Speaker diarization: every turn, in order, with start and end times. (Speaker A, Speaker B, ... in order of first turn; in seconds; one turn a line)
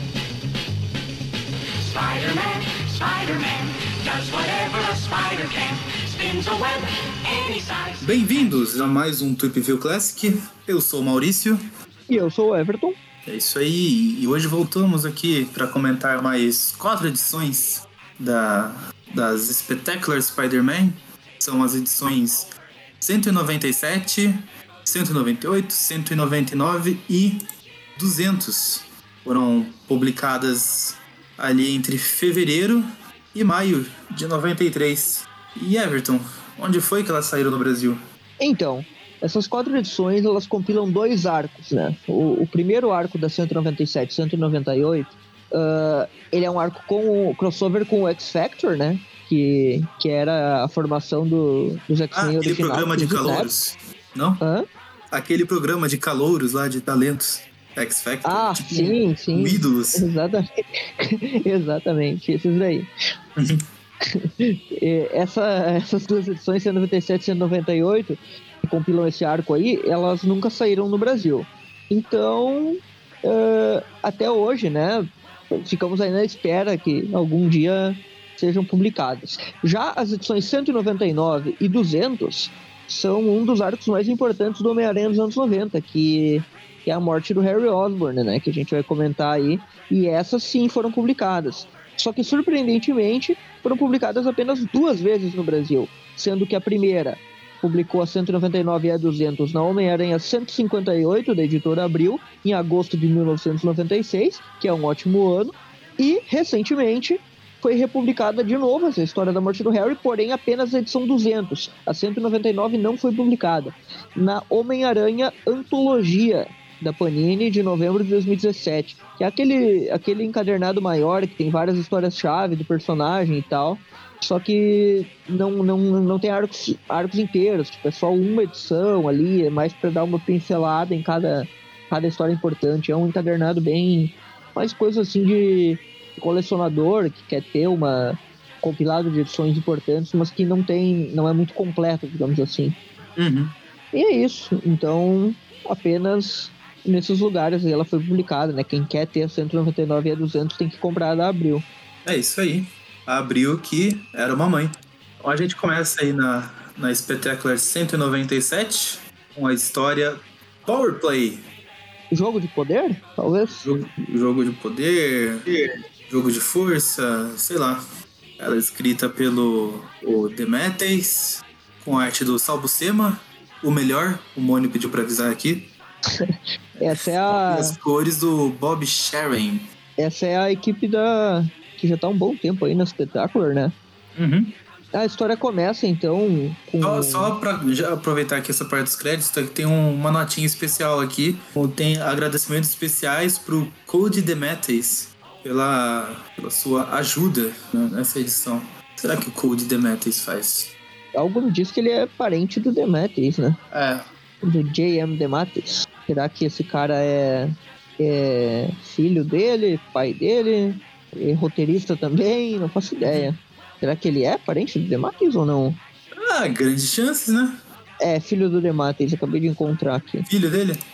Speaker A: 1.8-8.0
Speaker B: 8.0-11.6
Speaker C: 12.1-13.0
Speaker B: 13.2-22.5
Speaker B: 23.0-27.4
Speaker B: 28.0-38.0
Speaker C: 38.4-53.5
Speaker B: 52.1-54.4
Speaker C: 54.4-54.6
Speaker B: 55.1-60.0
Speaker C: 58.2-60.4
Speaker C: 61.0-62.9
Speaker C: 64.1-142.8
Speaker B: 143.2-143.5
Speaker C: 143.9-151.7
Speaker B: 152.0-161.4
Speaker C: 162.1-163.7
Speaker B: 163.6-165.4
Speaker B: 166.1-167.8
Speaker B: 168.4-175.7
Speaker C: 176.2-177.8
Speaker B: 176.8-179.6
Speaker C: 180.0-183.7
Speaker B: 184.2-184.5
Speaker C: 184.9-187.3
Speaker B: 186.8-200.7
Speaker C: 201.2-203.6
Speaker B: 203.7-204.1
Speaker C: 204.4-215.8
Speaker B: 216.2-217.5
Speaker C: 218.0-220.3
Speaker B: 220.2-220.8